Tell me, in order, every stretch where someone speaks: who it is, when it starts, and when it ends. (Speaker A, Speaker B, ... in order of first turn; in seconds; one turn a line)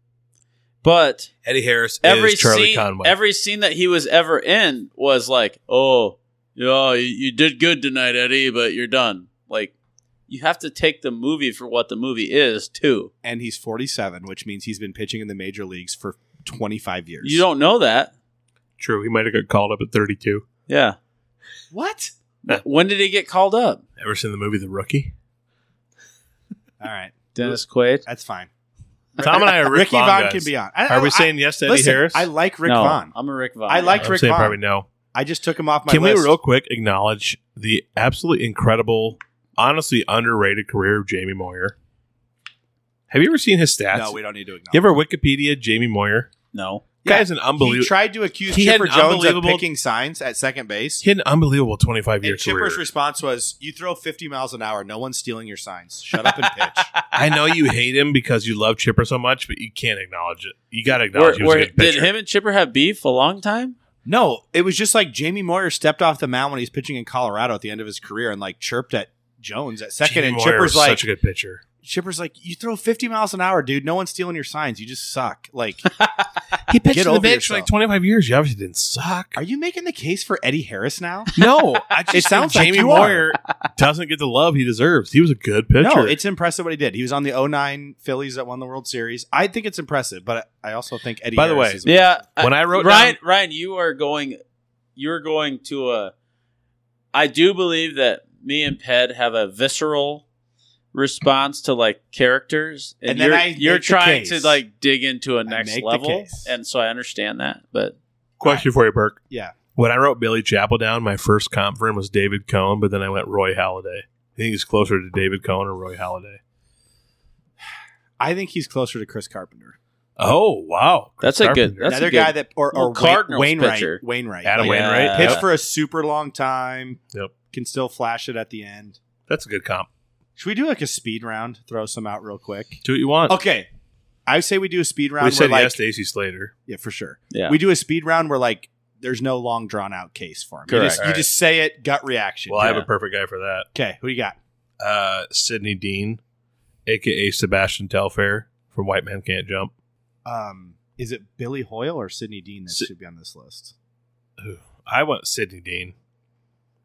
Speaker A: 0.8-1.3
Speaker B: 1.4-3.1
Speaker A: 2.0-9.7
Speaker A: 10.3-13.1
Speaker C: 13.2-17.4
Speaker A: 17.2-18.1
Speaker B: 18.8-20.4
Speaker A: 20.7-21.0
Speaker C: 21.7-22.1
Speaker A: 22.4-23.8
Speaker B: 24.0-25.1
Speaker C: 26.8-28.5
Speaker A: 27.3-28.0
Speaker B: 29.2-32.3
Speaker C: 29.2-33.1
Speaker A: 32.6-34.1
Speaker C: 33.7-34.6
Speaker B: 34.0-34.9
Speaker C: 35.1-36.3
Speaker B: 35.9-41.7
Speaker B: 43.1-44.2
Speaker C: 43.9-44.8
Speaker B: 44.7-46.3
Speaker A: 46.5-46.8
Speaker C: 47.0-51.0
Speaker B: 47.0-47.9
Speaker B: 48.5-49.6
Speaker B: 51.0-52.8
Speaker C: 52.2-56.9
Speaker A: 56.2-57.4
Speaker B: 57.1-62.1
Speaker A: 61.1-63.8
Speaker C: 64.0-71.0
Speaker B: 70.0-71.6
Speaker C: 71.8-75.8
Speaker A: 76.0-76.2
Speaker B: 76.7-79.4
Speaker C: 76.9-77.7
Speaker C: 79.3-81.3
Speaker B: 81.3-86.2
Speaker C: 82.1-83.3
Speaker C: 85.8-92.2
Speaker B: 91.3-91.8
Speaker A: 91.8-94.4
Speaker B: 92.4-93.2
Speaker A: 95.0-96.1
Speaker A: 97.1-100.2
Speaker A: 100.9-108.0
Speaker C: 103.1-104.6
Speaker C: 105.5-106.5
Speaker B: 108.4-109.2
Speaker C: 109.3-109.5
Speaker B: 109.7-116.4
Speaker C: 118.2-119.8
Speaker B: 120.2-121.9
Speaker A: 121.2-124.0
Speaker C: 121.8-127.0
Speaker B: 124.4-125.4
Speaker A: 124.6-125.4
Speaker C: 127.5-129.0
Speaker B: 129.3-129.9
Speaker C: 130.4-133.7
Speaker B: 132.8-133.4
Speaker C: 134.3-135.8
Speaker B: 135.2-136.5
Speaker C: 136.7-142.8
Speaker A: 137.3-137.6
Speaker A: 140.7-141.0
Speaker B: 141.0-141.3
Speaker B: 142.5-143.7
Speaker A: 142.6-142.8
Speaker C: 143.7-144.4
Speaker B: 144.8-146.2
Speaker B: 146.8-149.7
Speaker C: 150.2-153.7
Speaker B: 154.4-155.9